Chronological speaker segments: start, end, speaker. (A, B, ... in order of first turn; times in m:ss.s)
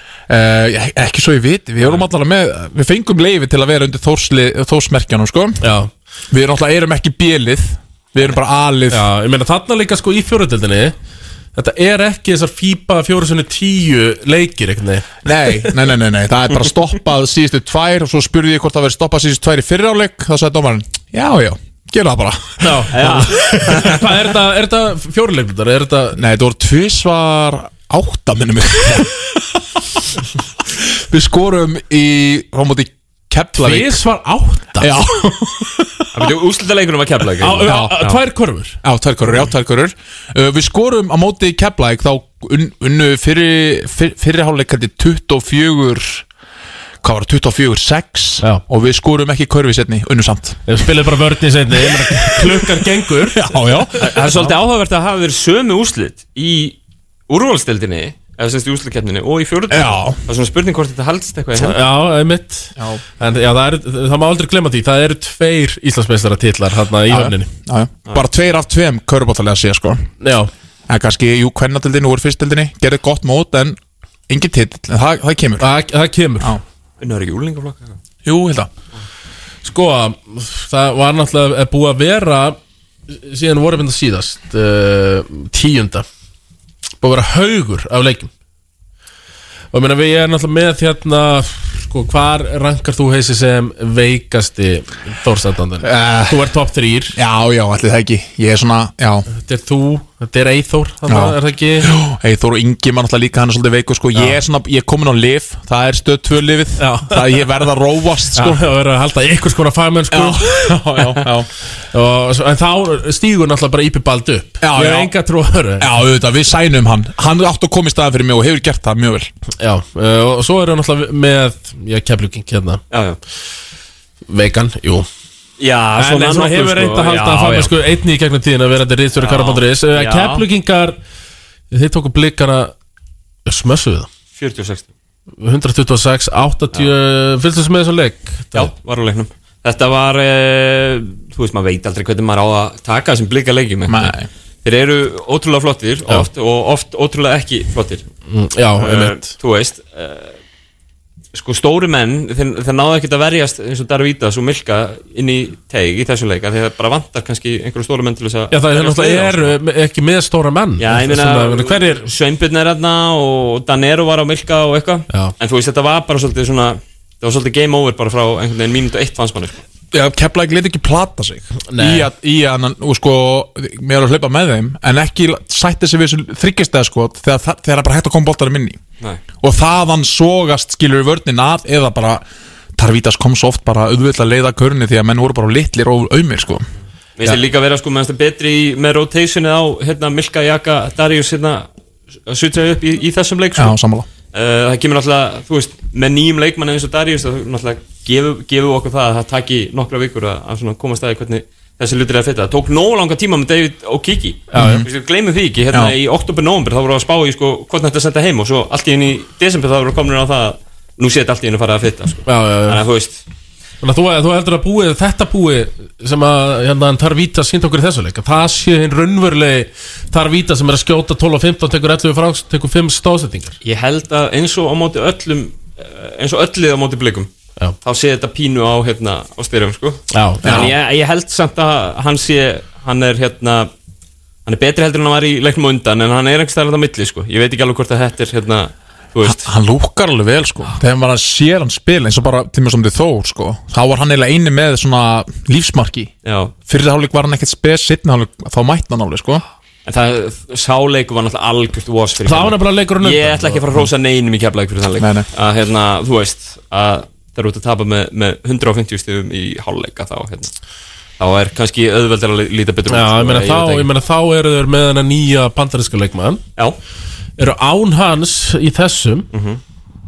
0:00.3-0:05.6 A
0:05.6-0:05.9 B
0:06.3-0:09.0 A
0:08.9-0:11.0 B
0:11.6-0:15.1 B
0:15.2-0:22.6 A
0:22.6-0:26.2 B
0:22.9-0:24.0 C
0:26.2-0:29.3 A
0:31.1-0:34.0 A
0:33.6-0:34.9 B
0:34.8-0:35.9 A
0:36.2-0:38.2 C
0:37.4-0:38.8 B
0:37.7-0:38.0 A
0:38.8-0:46.2 A
0:47.0-0:50.6 A
0:50.7-0:54.5 B
0:53.4-0:54.4 A
0:54.0-0:56.8 C
0:57.3-1:01.8 C
0:59.7-1:00.2 A
1:01.6-1:07.5 B
1:02.8-1:03.0 A
1:07.1-1:10.1 A
1:10.2-1:10.5 B
1:10.9-1:13.8 A
1:14.3-1:15.7 A
1:15.6-1:16.6 B
1:17.0-1:18.0 C
1:18.2-1:18.7 A
1:19.6-1:22.6 B
1:23.1-1:26.0 B
1:27.0-1:28.3 B
1:29.7-1:37.2 B
1:35.8-1:36.4 A
1:37.2-1:39.3 A
1:39.3-1:41.9 B
1:41.1-1:48.6 A
1:46.8-1:47.4 B
1:48.4-1:51.0 B
1:50.1-1:51.5 A
1:51.9-1:56.0 B
1:54.6-1:55.1 A
1:55.8-1:59.3 A
1:59.6-2:02.8 B
2:02.9-2:03.2 C
2:04.3-2:05.1 B
2:05.6-2:07.7 C
2:06.0-2:11.0 B
2:09.2-2:10.4 C
2:11.7-2:12.7 B
2:13.5-2:14.1 B
2:14.4-2:14.9 C
2:15.4-2:18.7 B
2:18.5-2:24.1 C
2:23.9-2:24.3 A
2:24.6-2:28.0 C
2:28.3-2:29.3 B
2:28.8-2:30.4 C
2:31.3-2:39.6 C
2:38.5-2:42.1 B
2:40.8-2:49.6 C
2:49.9-2:58.8 A
2:51.7-2:52.1 B
2:59.4-3:02.2 A
3:02.8-3:06.7 A
3:07.2-3:11.7 C
3:12.3-3:13.8 C
3:13.6-3:14.1 A
3:14.3-3:33.2 C
3:24.5-3:24.9 B
3:24.6-3:24.8 A
3:32.3-3:32.8 B
3:33.8-3:43.6 B
3:43.6-3:47.3 C
3:47.8-3:53.7 C
3:50.1-3:50.7 B
3:50.4-3:50.7 A
3:54.5-3:59.5 C
3:59.2-4:06.1 A
4:06.2-4:06.6 C
4:06.6-4:09.4 A
4:09.9-4:20.5 C
4:12.2-4:13.8 B
4:15.0-4:15.3 A
4:21.2-4:23.9 C
4:22.9-4:26.4 B
4:27.4-4:29.3 B
4:29.3-4:29.6 C